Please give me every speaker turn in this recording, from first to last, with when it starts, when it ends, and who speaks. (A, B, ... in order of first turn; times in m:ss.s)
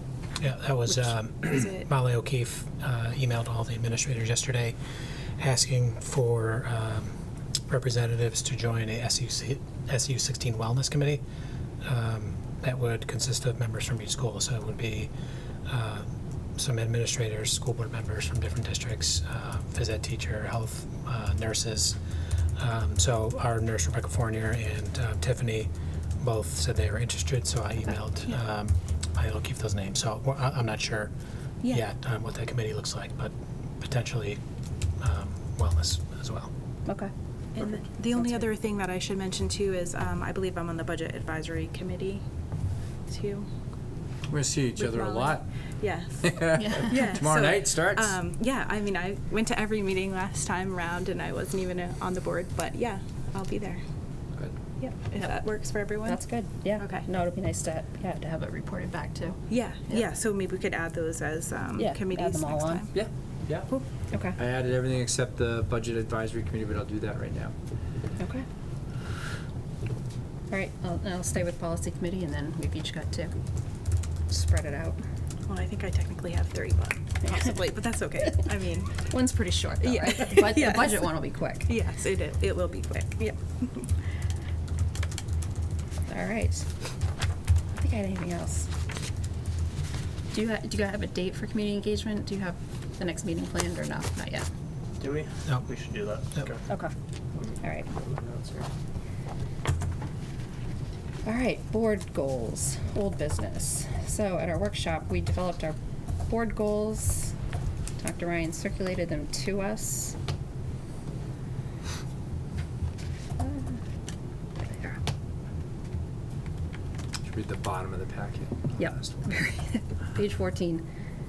0:00.4-0:04.8 A
0:00.9-0:01.9 B
0:05.4-0:07.1 A
0:07.7-0:11.2 A
0:11.8-0:15.1 A
0:15.7-0:16.0 A
0:16.6-0:22.0 A
0:22.6-0:25.7 A
0:26.2-0:31.1 A
0:31.6-0:34.4 A
0:35.0-0:36.5 A
0:36.8-0:37.1 C
0:37.6-0:42.2 B
0:38.2-0:38.5 C
0:43.1-0:43.5 B
0:44.3-0:45.4 D
0:44.8-0:53.8 B
0:46.2-0:48.2 D
0:46.6-0:47.0 C
0:54.8-0:57.0 B
0:55.2-1:00.0 C
0:59.5-1:03.0 B
1:01.8-1:02.8 C
1:02.9-1:03.8 D
1:04.1-1:04.4 C
1:04.4-1:07.5 D
1:08.2-1:08.5 C
1:10.5-1:13.3 C
1:14.3-1:15.0 C
1:15.5-1:19.0 B
1:19.0-1:21.7 C
1:19.8-1:23.9 B
1:26.1-1:26.7 C
1:27.7-1:28.7 C
1:30.3-1:34.5 C
1:35.0-1:36.6 E
1:36.7-1:36.9 C
1:37.3-1:38.7 E
1:37.6-1:37.9 C
1:41.2-1:47.3 C
1:48.0-1:50.2 C
1:53.4-1:53.8 C
1:54.6-1:55.0 C
1:57.2-1:59.2 D
1:58.8-2:00.8 C